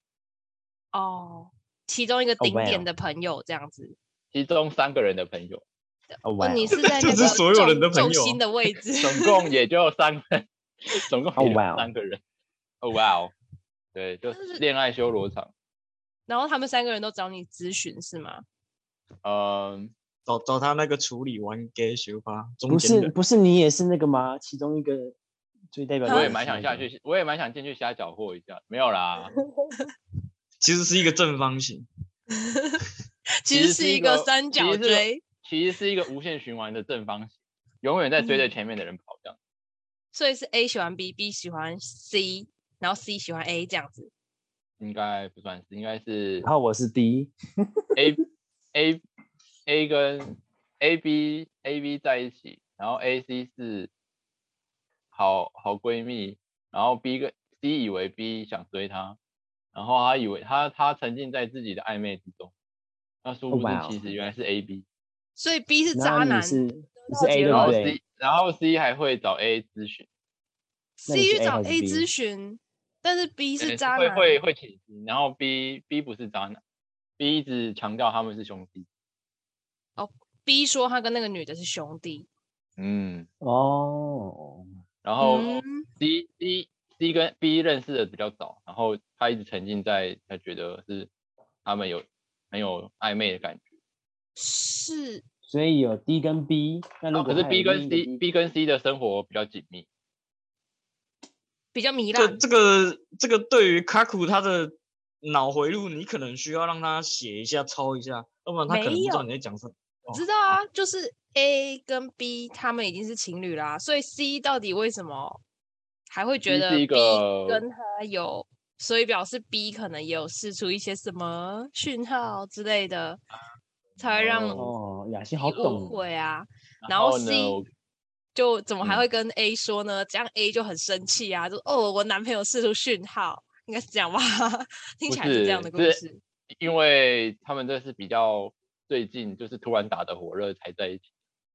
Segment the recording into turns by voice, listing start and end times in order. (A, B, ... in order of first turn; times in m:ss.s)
0:00.9-0:04.0 A
0:02.4-0:02.9 B
0:04.3-0:05.6 C
0:06.2-0:07.3 B
0:06.4-0:09.4 A
0:06.7-0:08.4 D
0:09.0-0:12.2 C
0:11.4-0:11.9 B
0:12.8-0:13.3 C
0:13.9-0:15.5 C
0:14.3-0:14.6 A
0:16.3-0:18.4 A
0:19.2-0:19.9 C
0:20.2-0:23.1 D
0:22.7-0:25.2 B
0:25.7-0:26.9 B
0:26.0-0:29.3 C
0:26.0-0:26.3 A
0:30.6-0:31.9 D
0:32.4-0:32.8 A
0:33.4-0:35.2 A
0:33.5-0:39.4 C
0:38.2-0:38.5 A
0:40.1-0:44.1 A
0:44.8-0:46.5 C
0:46.4-0:48.1 B
0:48.0-0:48.2 C
0:48.7-0:49.0 C
0:49.7-0:53.9 C
0:55.1-0:59.2 C
0:59.7-1:02.5 C
1:03.2-1:04.8 C
1:03.5-1:04.2 B
1:05.4-1:07.8 A
1:05.9-1:08.0 B
1:07.5-1:10.1 C
1:11.0-1:14.4 A
1:11.0-1:12.1 B
1:13.6-1:16.6 C
1:17.2-1:18.9 C
1:20.0-1:22.3 A
1:22.8-1:23.3 C
1:23.4-1:24.7 B
1:25.0-1:31.1 C
1:25.2-1:25.9 A
1:31.6-1:33.7 C
1:34.4-1:35.2 A
1:35.5-1:38.2 B
1:37.1-1:39.9 C
1:41.7-1:42.4 A
1:42.1-1:50.2 D
1:48.7-1:49.3 A
1:50.1-1:55.4 A
1:56.1-2:03.2 A
1:56.4-1:57.6 C
2:04.0-2:04.7 C
2:04.0-2:04.6 A
2:04.5-2:06.0 B
2:05.4-2:07.6 A
2:06.8-2:07.7 C
2:08.3-2:16.2 A
2:15.1-2:21.0 C